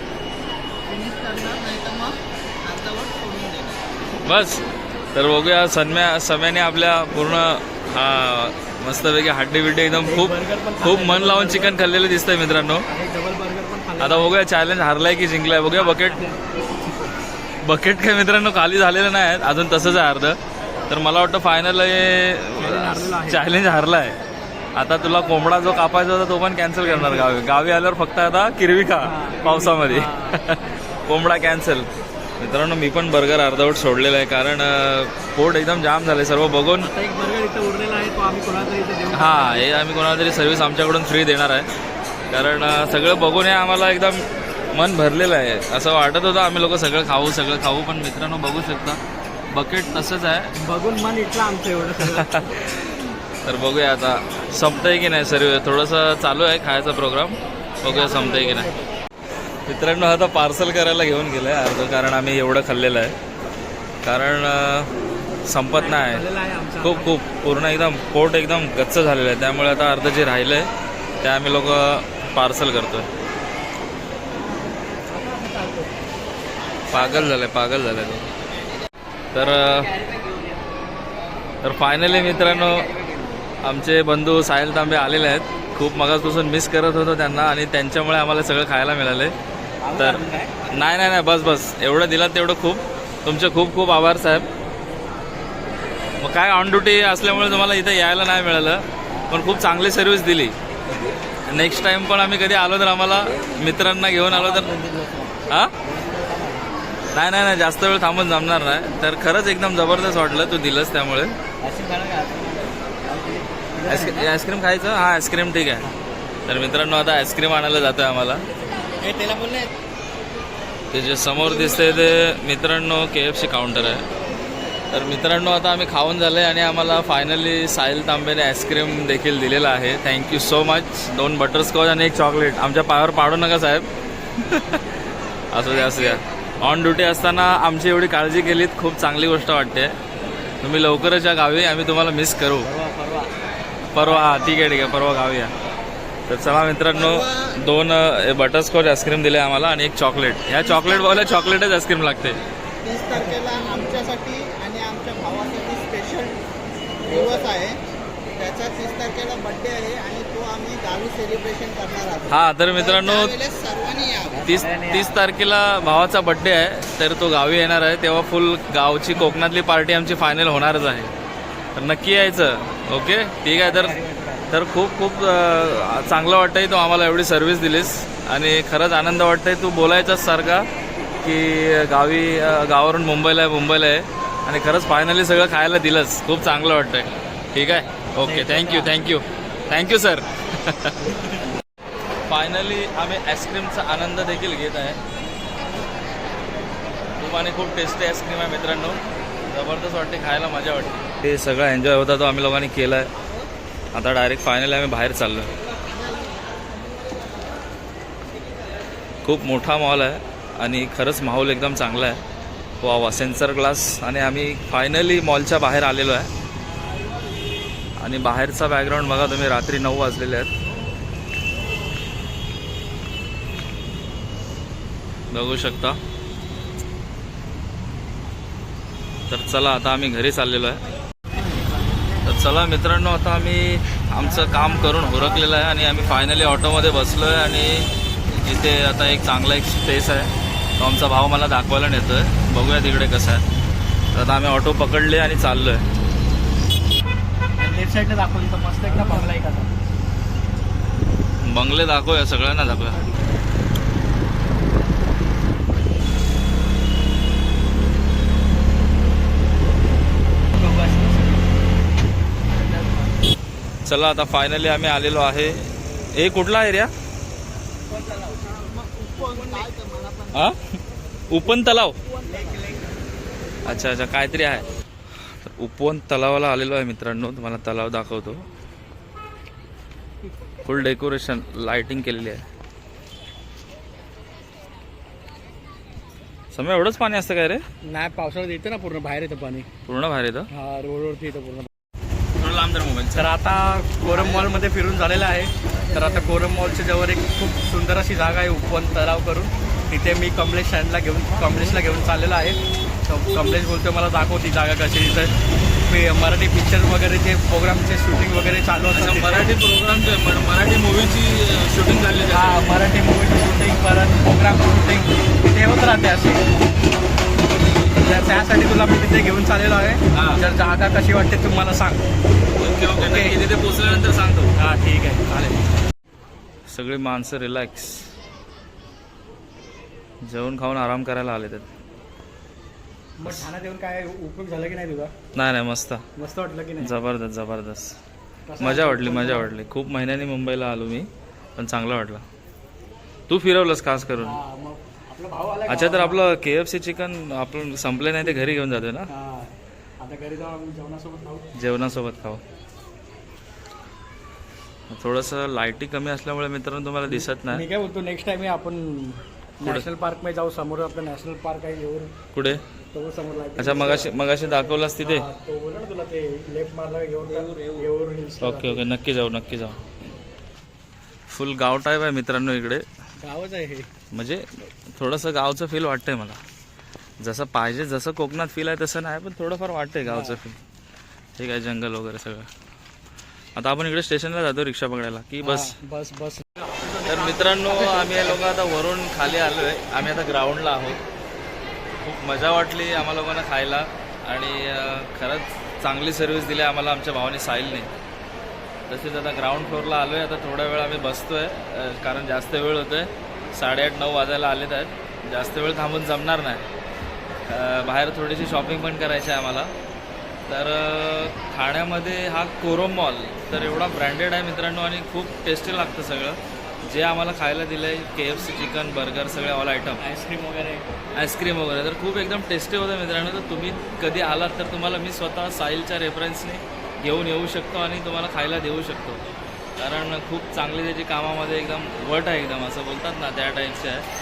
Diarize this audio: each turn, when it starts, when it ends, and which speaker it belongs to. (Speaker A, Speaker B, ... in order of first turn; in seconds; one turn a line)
Speaker A: 0.8-3.8
Speaker B: 4.2-12.8
Speaker C: 10.0-11.8
Speaker C: 12.8-14.3
Speaker B: 14.0-16.2
Speaker C: 15.8-16.4
Speaker B: 17.6-20.4
Speaker B: 20.9-24.2
Speaker C: 22.6-23.4
Speaker B: 24.7-36.9
Speaker C: 26.8-27.3
Speaker C: 29.0-30.4
Speaker C: 36.8-39.7
Speaker B: 39.1-41.7
Speaker B: 42.3-49.0
Speaker B: 49.5-50.5
Speaker C: 50.6-52.4
Speaker B: 52.1-52.9
Speaker B: 53.4-58.7
Speaker C: 57.8-58.9
Speaker B: 59.7-63.1
Speaker B: 64.0-64.9
Speaker B: 65.5-66.2
Speaker C: 65.7-67.1
Speaker B: 66.8-70.7
Speaker B: 71.2-73.1
Speaker C: 75.0-76.0
Speaker B: 76.9-78.3
Speaker B: 79.3-79.9
Speaker B: 81.6-82.9
Speaker B: 83.6-89.3
Speaker C: 89.8-90.7
Speaker B: 90.0-94.5
Speaker B: 96.2-100.5
Speaker C: 99.1-99.6
Speaker B: 101.5-104.7
Speaker C: 104.3-106.7
Speaker B: 105.5-105.7
Speaker B: 107.1-111.4
Speaker C: 111.6-114.3
Speaker B: 113.9-115.9
Speaker B: 116.5-118.4
Speaker C: 119.0-119.7
Speaker B: 120.9-124.0
Speaker B: 124.9-134.9
Speaker B: 135.5-139.9
Speaker B: 140.6-142.7
Speaker C: 142.6-143.3
Speaker B: 143.9-145.5
Speaker B: 146.3-152.4
Speaker A: 146.9-147.6
Speaker A: 150.6-151.6
Speaker A: 152.8-156.4
Speaker A: 157.0-157.8
Speaker C: 157.1-157.5
Speaker A: 158.3-164.6
Speaker B: 162.3-163.3
Speaker C: 164.3-165.2
Speaker B: 164.4-171.1
Speaker B: 171.8-173.9
Speaker C: 173.5-174.5
Speaker B: 174.5-180.7
Speaker B: 181.2-190.9
Speaker C: 188.2-188.9
Speaker C: 191.0-191.4
Speaker B: 192.3-195.0
Speaker B: 197.2-203.1
Speaker B: 203.9-205.5
Speaker A: 205.8-207.3
Speaker B: 209.2-212.2
Speaker B: 212.8-216.3
Speaker B: 218.0-220.5
Speaker B: 225.3-226.0
Speaker B: 229.3-230.8
Speaker C: 231.3-232.0
Speaker B: 232.2-243.4
Speaker C: 234.9-235.3
Speaker B: 244.1-245.8
Speaker C: 247.6-249.7
Speaker B: 251.4-253.0
Speaker C: 260.6-261.5
Speaker B: 263.8-266.9
Speaker C: 268.0-268.5
Speaker A: 268.5-270.4
Speaker C: 269.4-269.7
Speaker B: 270.3-270.6
Speaker B: 271.3-272.0
Speaker C: 272.2-272.9
Speaker B: 273.6-274.7
Speaker B: 275.4-278.4
Speaker B: 280.6-282.4
Speaker B: 286.5-287.6
Speaker C: 287.9-289.7
Speaker B: 289.9-290.5
Speaker C: 290.5-291.7
Speaker B: 292.4-293.3
Speaker C: 293.1-305.3
Speaker C: 305.9-309.5
Speaker B: 308.9-312.6
Speaker C: 312.3-316.4
Speaker C: 318.0-322.0
Speaker B: 320.1-320.4
Speaker B: 322.6-324.5
Speaker C: 323.0-323.4
Speaker C: 324.5-325.6
Speaker B: 326.7-328.1
Speaker B: 330.2-331.7
Speaker C: 333.2-335.1
Speaker B: 333.2-333.5
Speaker B: 335.3-336.0
Speaker C: 336.1-337.0
Speaker B: 336.8-337.9
Speaker C: 338.5-339.5
Speaker B: 338.6-342.2
Speaker B: 343.3-344.4
Speaker C: 344.2-346.2
Speaker B: 345.7-349.1
Speaker C: 349.1-351.5
Speaker B: 351.6-352.4
Speaker B: 354.9-357.6
Speaker C: 357.1-362.1
Speaker B: 362.3-362.6
Speaker C: 362.9-368.9
Speaker B: 363.6-365.3
Speaker A: 367.3-367.8
Speaker B: 368.4-369.8
Speaker B: 371.3-372.8
Speaker C: 373.2-373.9
Speaker B: 374.1-374.4
Speaker B: 374.9-376.4
Speaker B: 377.2-380.6
Speaker C: 380.0-380.4
Speaker B: 381.4-382.5
Speaker B: 383.6-385.8
Speaker C: 385.4-388.4
Speaker B: 387.0-391.0
Speaker B: 392.0-397.9
Speaker B: 398.9-406.6
Speaker B: 407.5-409.7
Speaker B: 410.5-420.0
Speaker C: 420.0-420.9
Speaker B: 421.1-429.2
Speaker B: 429.8-434.1